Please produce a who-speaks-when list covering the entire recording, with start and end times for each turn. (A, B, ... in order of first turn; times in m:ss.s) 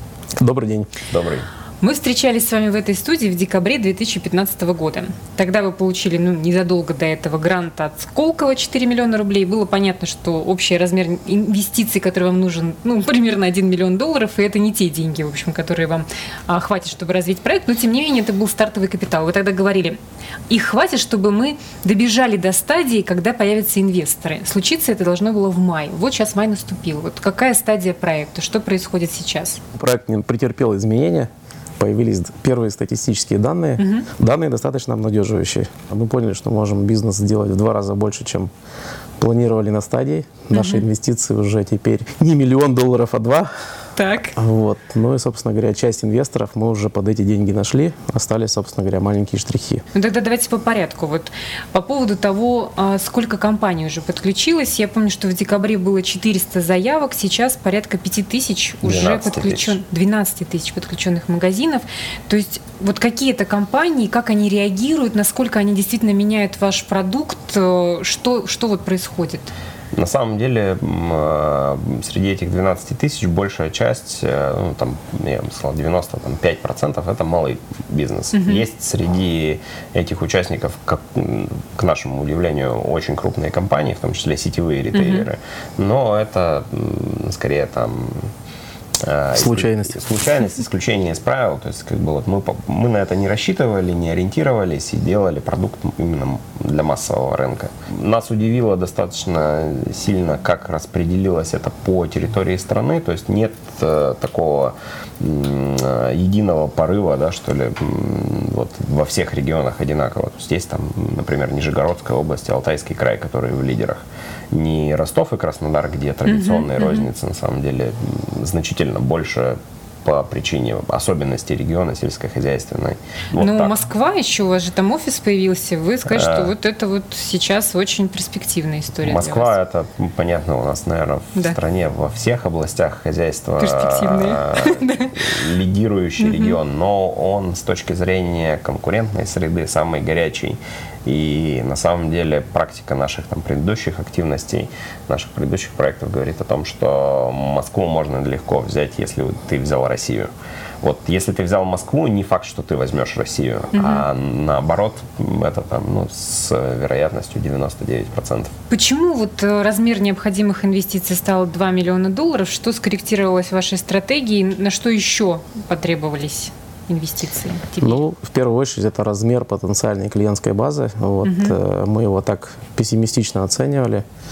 0:00.4-0:00.9 A
0:01.1-0:01.5 B
0:01.8-0:20.0 C
0:20.5-0:29.6 C
0:29.8-0:38.5 A
0:33.8-0:34.0 C
0:39.2-0:43.5 A
0:40.5-0:40.8 C
0:44.0-0:44.3 C
0:44.3-0:49.8 A
0:49.9-1:09.5 C
0:58.8-0:59.8 B
1:09.9-1:28.2 B
1:18.3-1:18.6 C
1:24.9-1:25.3 C
1:29.0-2:03.7 B
1:29.3-1:30.0 A
1:56.2-1:57.0 C
2:03.4-2:09.5 C
2:06.0-2:06.5 B
2:09.0-2:30.3 B
2:13.6-2:15.4 C
2:16.2-2:16.6 C
2:30.8-2:38.5 B
2:33.7-2:34.0 C
2:38.7-2:48.0 C
2:47.8-2:54.0 A
2:51.2-2:51.6 C